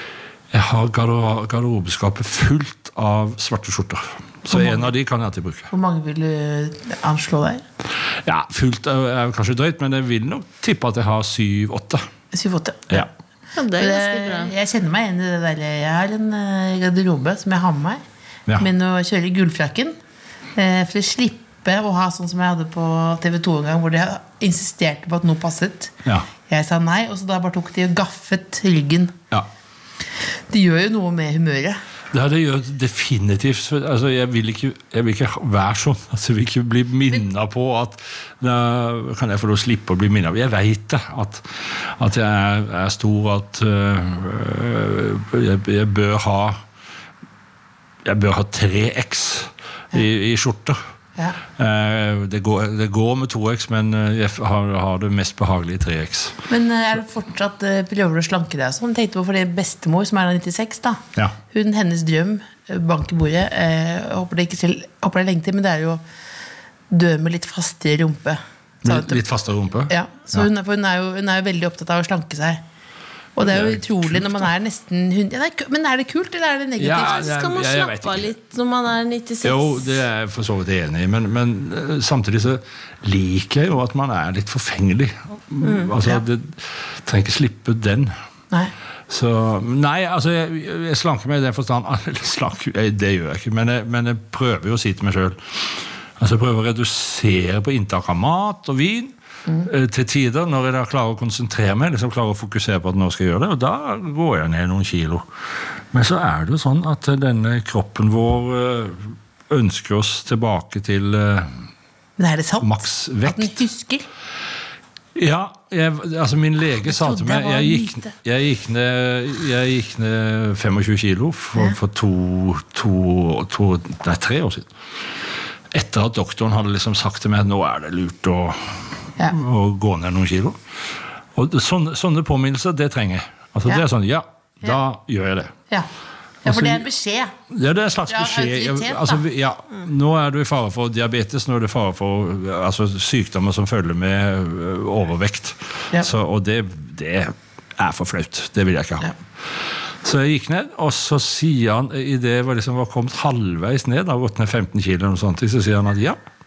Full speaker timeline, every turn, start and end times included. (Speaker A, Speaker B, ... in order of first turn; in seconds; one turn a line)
Speaker A: 0.5-5.7
Speaker B: 4.5-4.9
Speaker B: 5.7-7.6
Speaker A: 8.2-12.1
Speaker B: 12.3-13.1
Speaker C: 13.6-14.5
Speaker B: 13.8-18.0
Speaker B: 18.6-20.0
Speaker B: 20.6-25.9
Speaker B: 26.5-29.1
Speaker B: 30.5-31.8
Speaker A: 32.1-46.6
Speaker A: 48.0-50.8
Speaker A: 51.5-56.4
Speaker B: 56.5-66.0
Speaker B: 66.9-69.2
Speaker A: 68.8-70.5
Speaker B: 69.9-72.6
Speaker B: 73.3-77.2
Speaker A: 73.4-74.5
Speaker A: 76.8-78.3
Speaker C: 76.9-80.0
Speaker A: 79.4-88.1
Speaker C: 85.6-85.9
Speaker A: 89.1-105.3
Speaker A: 105.9-111.5
Speaker B: 112.2-114.1
Speaker A: 112.6-113.6
Speaker A: 115.2-124.7
Speaker B: 116.8-118.1
Speaker A: 125.7-130.6
Speaker A: 131.3-135.5
Speaker B: 136.4-137.3
Speaker A: 136.4-136.8
Speaker A: 137.5-149.1
Speaker B: 138.1-139.2
Speaker A: 150.0-156.2